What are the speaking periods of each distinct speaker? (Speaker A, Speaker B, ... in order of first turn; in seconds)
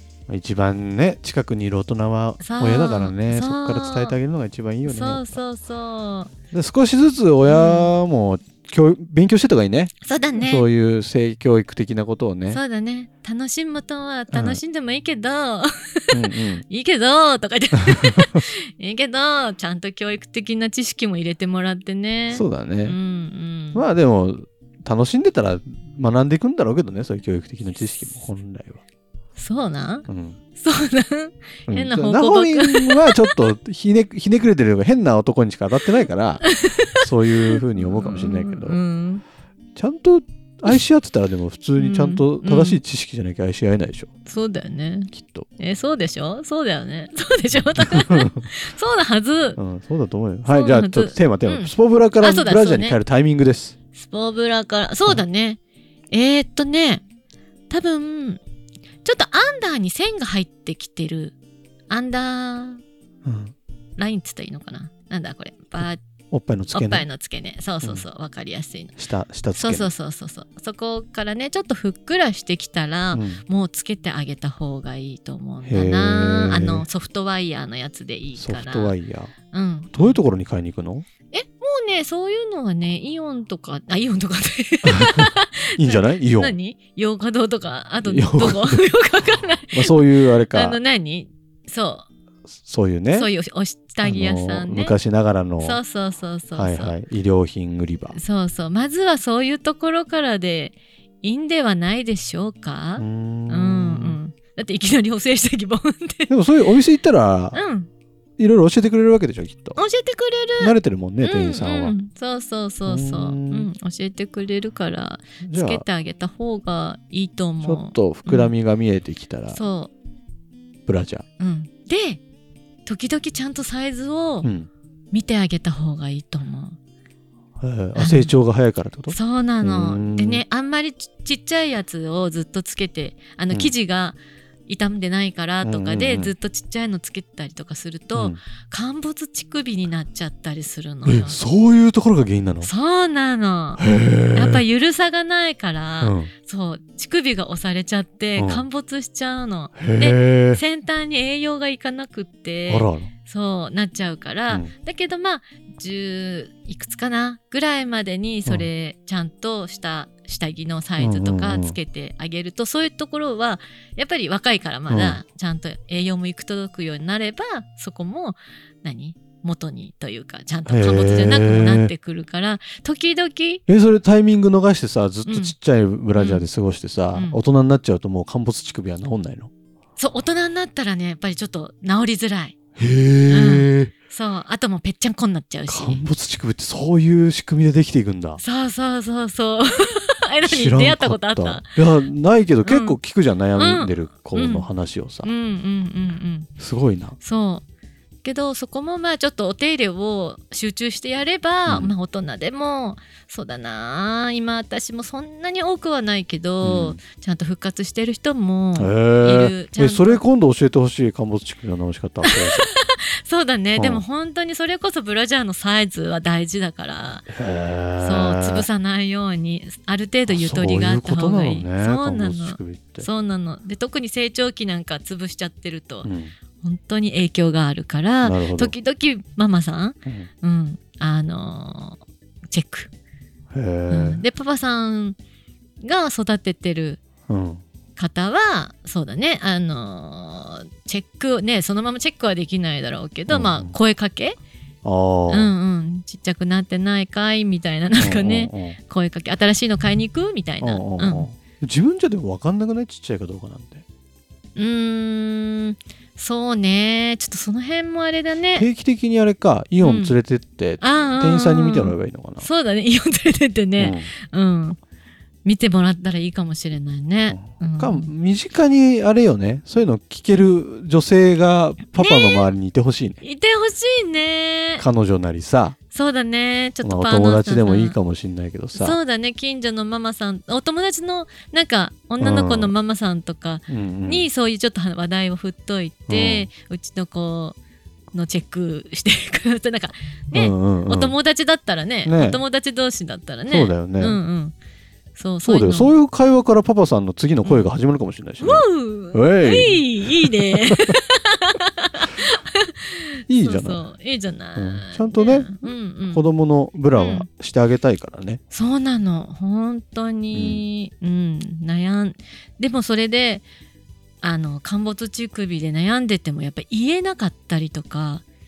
Speaker A: 0.3-5.4, 6.5-12.6, 14.3-14.6, 16.1-16.6, 22.3-23.0, 23.7-28.8, 30.1-30.4, 31.7-38.8, 39.8-44.1, 45.1-45.5, 47.8-48.3, 49.6-53.7, 63.2-63.5, 66.3-67.0, 69.0-69.9, 73.1-73.4, 75.6-76.8, 78.3-79.3, 79.9-81.0, 84.8-86.5, 88.0-88.9, 89.7-90.8, 92.6-93.3, 94.0-95.8, 96.5-98.2, 103.0-104.2, 106.3-107.6, 108.4-109.8, 110.6-112.0, 112.9-113.7, 115.4-115.8, 117.6-119.6, 120.9-121.2, 124.4-124.7, 127.6-130.4, 135.6-136.3, 141.0-142.7, 143.8-144.6, 146.0-146.3, 148.3-148.7, 149.8-150.6, 152.7-153.1, 161.0-161.8, 164.9-165.2, 170.7-171.9, 173.7-179.5, 182.8-183.9, 185.7-188.4, 190.4-195.3, 196.6-197.2, 201.7-201.9, 206.6-207.0, 208.8-212.7, 213.8-214.0, 217.3-218.7, 220.3-223.1, 226.0-226.3, 228.2-228.7, 233.5-234.2, 237.3-237.6, 243.3-243.8, 244.8-245.5, 247.9-248.8, 250.6-253.8, 258.5-262.5, 263.8-264.1, 267.3-273.2, 274.8-275.8, 276.8-279.0, 282.2-282.7, 283.7-284.3, 286.1-286.5, 290.3-291.1, 292.0-292.4, 293.5-294.2, 295.4-300.9, 303.3-303.8, 304.6-308.4, 310.3-310.6
Speaker B: 2.4-4.2, 4.8-6.3, 7.5-7.9, 10.0-10.7, 12.5-23.8, 29.4-33.5, 36.4-39.2, 41.8-42.8, 44.2-49.6, 50.5-53.0, 53.9-55.6, 56.1-57.0, 57.7-58.4, 59.0-61.3, 61.9-62.8, 64.0-66.0, 66.7-68.9, 69.5-78.9, 79.5-80.2, 81.3-92.0, 93.1-95.0, 95.6-96.9, 98.1-106.3, 107.5-107.9, 109.8-118.5, 119.5-119.9, 121.4-122.2, 122.8-124.5, 125.1-126.8, 128.0-128.4, 129.1-141.4, 142.6-173.6, 175.2-175.5, 176.1-176.4, 177.1-177.4, 180.0-182.6, 183.3-186.0, 188.4-191.7, 192.6-193.0, 193.6-194.7, 195.2-196.5, 197.2-197.6, 198.2-210.2, 212.2-217.3, 218.0-232.9, 233.9-235.2, 235.8-237.0, 237.9-244.4, 245.3-251.3, 254.6-258.7, 259.8-260.1, 260.8-264.8, 265.4-268.1, 271.9-272.5, 273.2-274.8, 275.9-278.0, 278.7-287.6, 288.1-294.5, 295.1-295.9, 297.4-297.7, 298.4-306.3, 306.9-307.2, 308.5-313.4, 314.2-318.2